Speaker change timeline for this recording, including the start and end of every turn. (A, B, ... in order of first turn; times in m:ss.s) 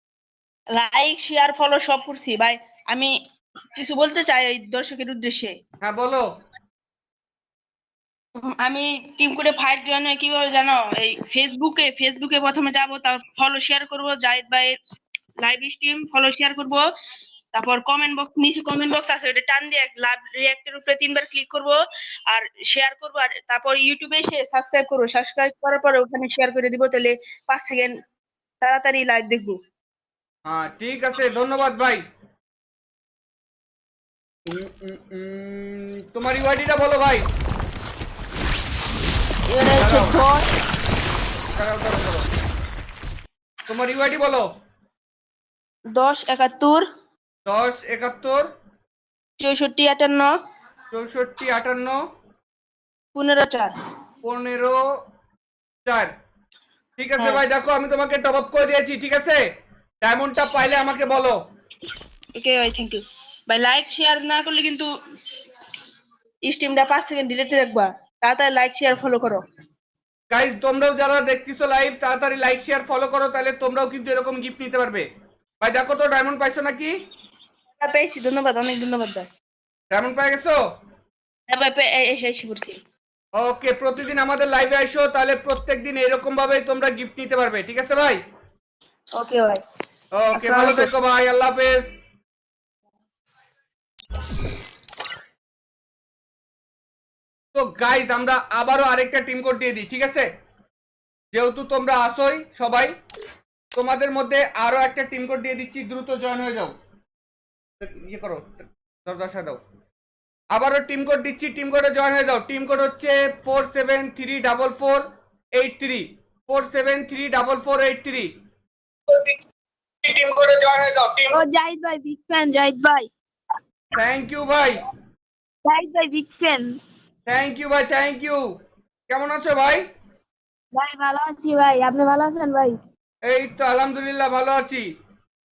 0:00.7-0:03.2 A
0:03.8-0:05.6 A
0:05.8-0:06.3 B
0:08.4-0:14.8 A
0:15.4-0:16.8 A
0:17.5-0:21.8 A
0:22.3-0:27.9 A
0:28.6-0:29.6 A
0:30.5-0:32.0 B
0:34.5-0:37.2 B
0:39.5-0:40.5 A
0:39.8-0:40.2 B
0:41.6-0:42.3 B
0:43.7-0:44.5 B
0:45.9-0:46.9 A
0:47.5-0:48.5 B
0:49.4-0:50.3 A
0:50.9-0:52.0 B
0:53.2-0:53.8 A
0:54.2-0:54.8 B
0:55.9-0:56.1 B
0:57.0-0:59.4 B
1:00.0-1:01.4 B
1:02.4-1:04.9 A
1:06.5-1:09.4 A
1:10.3-1:15.0 B
1:15.6-1:17.0 B
1:17.8-1:19.3 A
1:19.9-1:20.6 B
1:21.5-1:22.8 A
1:23.4-1:28.2 B
1:29.2-1:29.6 A
1:30.2-1:31.9 B
1:30.3-1:30.9 A
1:37.5-1:40.3 B
1:41.3-1:43.0 B
1:43.8-1:46.7 B
1:47.8-1:49.6 B
1:50.5-1:58.3 B
1:59.1-1:59.4 B
2:00.0-2:01.4 B
2:01.3-2:03.1 C
2:04.0-2:04.8 B
2:05.7-2:06.7 C
2:07.3-2:08.4 B
2:09.1-2:09.8 B
2:10.7-2:12.8 C
2:13.3-2:14.9 B